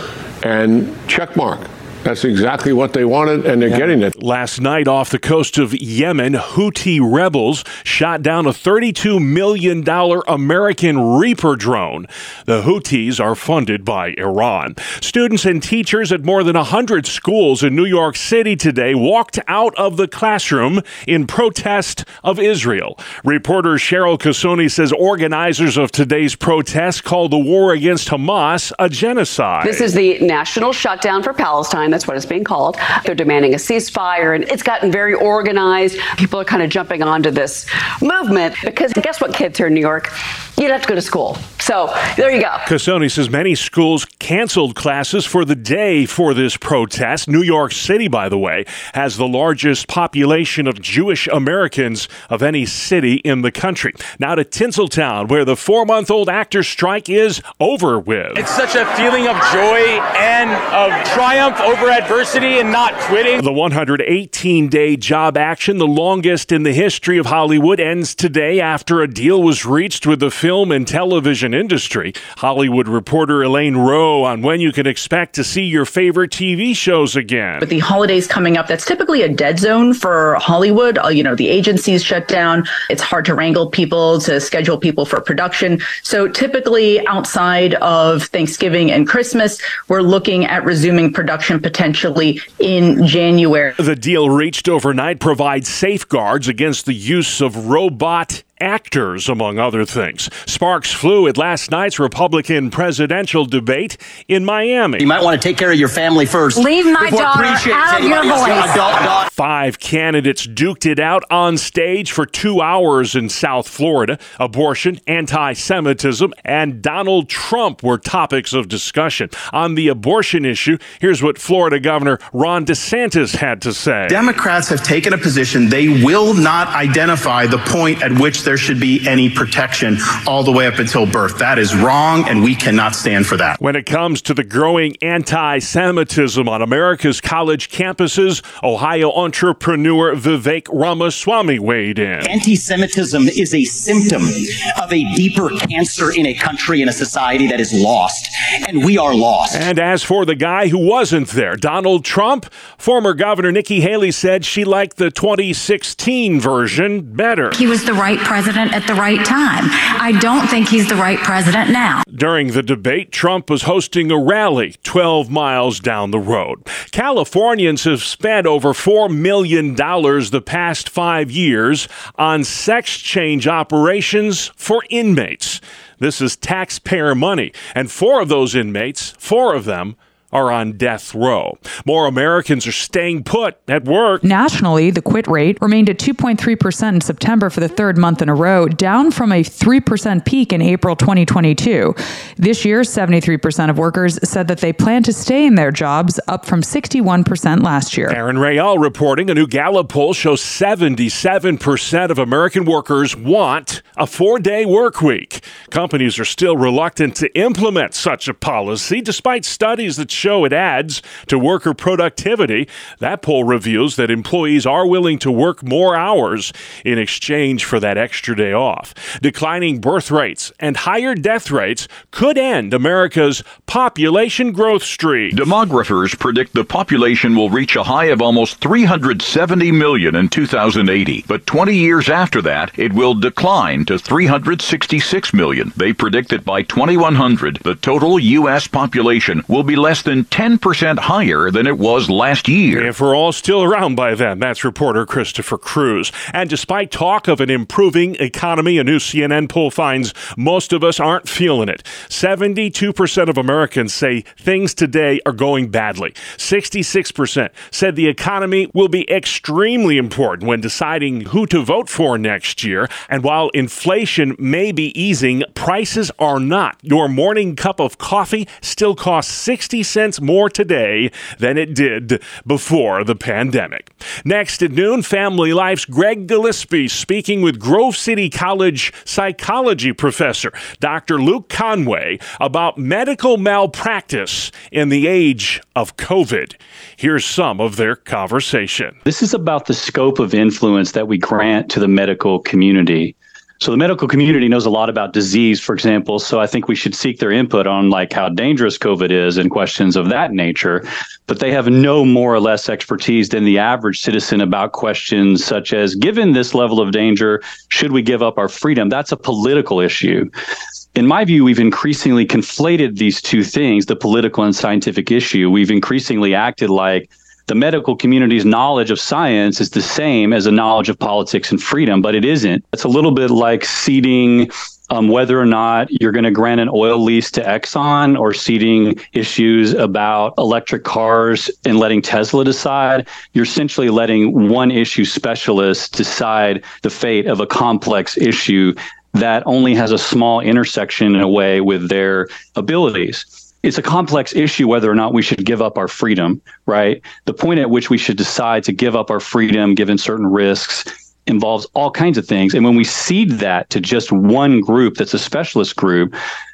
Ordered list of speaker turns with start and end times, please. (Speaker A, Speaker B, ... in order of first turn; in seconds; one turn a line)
Speaker A: 0.4-4.1
Speaker B: 3.7-29.9
Speaker C: 29.6-42.6
Speaker B: 42.6-58.5
Speaker D: 58.4-63.4
Speaker B: 63.4-77.6
Speaker E: 77.6-93.8
Speaker B: 93.8-105.1
Speaker F: 105.0-109.2
Speaker G: 106.5-109.0
Speaker B: 109.3-124.2
Speaker H: 124.1-133.6
Speaker B: 133.6-142.3
Speaker F: 142.2-149.7
Speaker B: 149.5-157.6
Speaker G: 157.5-162.0
Speaker B: 162.1-184.2
Speaker I: 184.2-198.2
Speaker B: 198.1-225.3
Speaker J: 225.3-242.9
Speaker B: 242.7-289.0
Speaker K: 289.1-310.3
Speaker K: 310.9-356.1